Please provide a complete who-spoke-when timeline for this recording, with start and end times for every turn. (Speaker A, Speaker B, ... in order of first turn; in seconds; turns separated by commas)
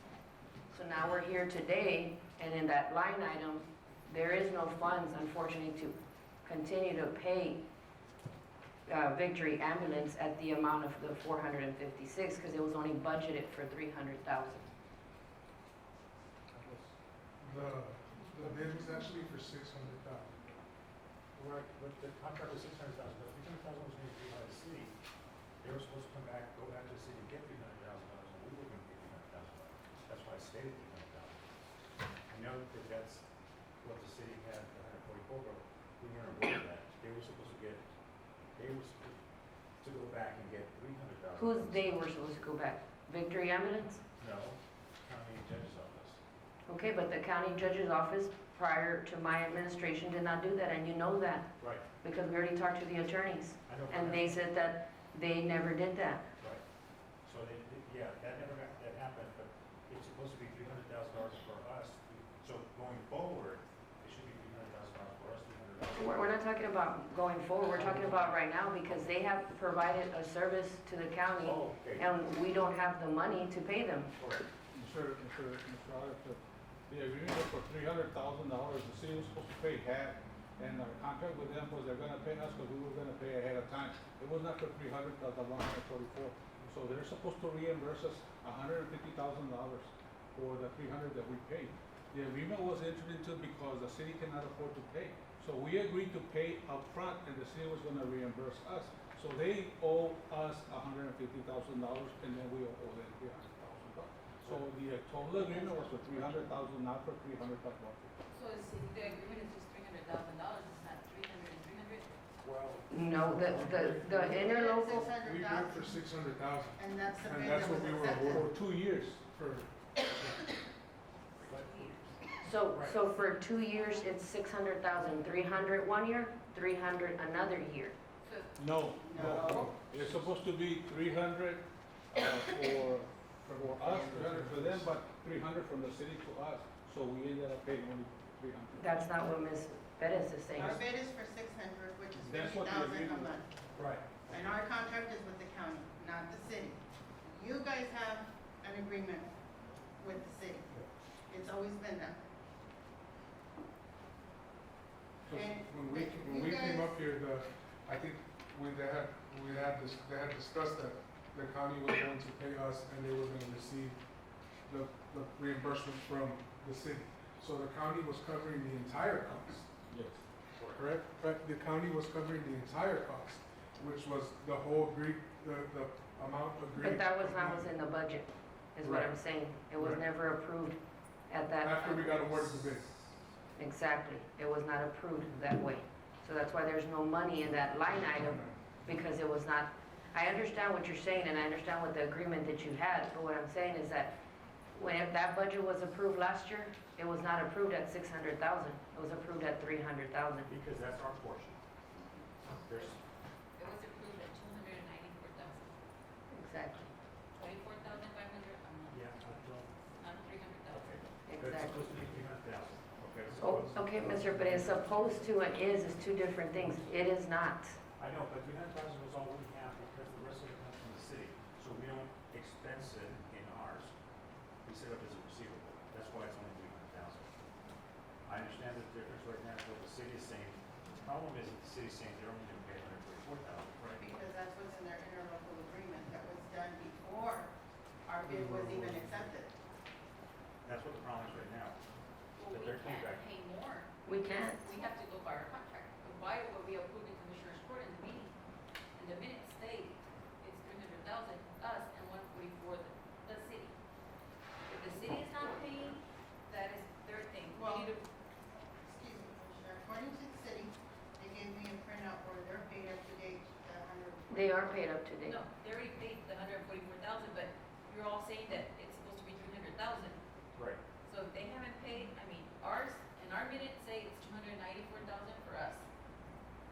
Speaker A: 0.7-7.6, Speaker A: 8.9-14.7, Speaker B: 17.4-20.5, Speaker C: 21.4-24.9, Speaker C: 25.6-31.4, Speaker C: 32.3-33.2, Speaker C: 33.8-37.8, Speaker C: 38.6-39.2, Speaker C: 39.8-42.0, Speaker A: 41.4-44.0, Speaker C: 44.2-46.2, Speaker A: 46.7-56.2, Speaker C: 51.6-51.9, Speaker C: 53.7-54.4, Speaker C: 57.2-66.3, Speaker A: 66.0-74.1, Speaker C: 67.7-69.1, Speaker C: 71.4-72.1, Speaker C: 74.2-74.5, Speaker D: 74.7-108.1, Speaker C: 104.4-104.7, Speaker C: 105.2-106.4, Speaker E: 108.3-112.2, Speaker C: 112.4-112.9, Speaker A: 112.9-115.0, Speaker B: 113.3-118.5, Speaker F: 114.3-115.9, Speaker F: 116.8-118.5, Speaker D: 118.3-119.2, Speaker B: 119.3-119.7, Speaker C: 120.1-120.4, Speaker C: 121.4-122.2, Speaker E: 121.4-122.0, Speaker A: 122.4-128.0, Speaker C: 122.7-123.0, Speaker E: 128.2-128.5, Speaker D: 128.6-138.9, Speaker F: 129.0-129.7, Speaker B: 129.2-129.7, Speaker B: 133.8-134.9, Speaker A: 138.8-140.8, Speaker F: 140.6-143.5, Speaker D: 142.2-143.3, Speaker C: 143.8-144.3, Speaker F: 144.3-149.3, Speaker F: 150.0-150.7, Speaker F: 151.3-152.2, Speaker B: 155.3-164.0, Speaker F: 155.3-156.9, Speaker B: 164.7-169.7, Speaker D: 169.9-170.2, Speaker B: 170.6-177.7, Speaker A: 176.8-180.8, Speaker B: 178.8-179.1, Speaker B: 179.8-180.0, Speaker A: 181.3-182.6, Speaker B: 181.6-182.9, Speaker A: 183.6-194.2, Speaker B: 188.2-188.8, Speaker A: 194.8-200.5, Speaker C: 200.5-201.6, Speaker C: 202.5-203.0, Speaker E: 203.6-205.7, Speaker A: 206.3-206.9, Speaker E: 207.4-209.1, Speaker C: 208.9-209.8, Speaker E: 210.0-210.9, Speaker C: 210.7-215.3, Speaker A: 211.3-211.9, Speaker A: 213.4-217.8, Speaker B: 213.4-214.9, Speaker C: 218.0-223.9, Speaker C: 224.7-227.3, Speaker C: 228.2-234.0, Speaker F: 234.0-237.5, Speaker F: 238.1-239.5, Speaker B: 238.2-239.2, Speaker C: 240.6-241.8, Speaker E: 242.3-248.4, Speaker C: 242.5-243.2, Speaker A: 244.1-244.7, Speaker E: 249.0-253.8, Speaker E: 254.7-258.0, Speaker F: 257.5-257.9, Speaker F: 258.8-264.8, Speaker A: 264.3-265.4, Speaker E: 265.2-270.2, Speaker C: 270.6-270.8, Speaker E: 271.1-275.9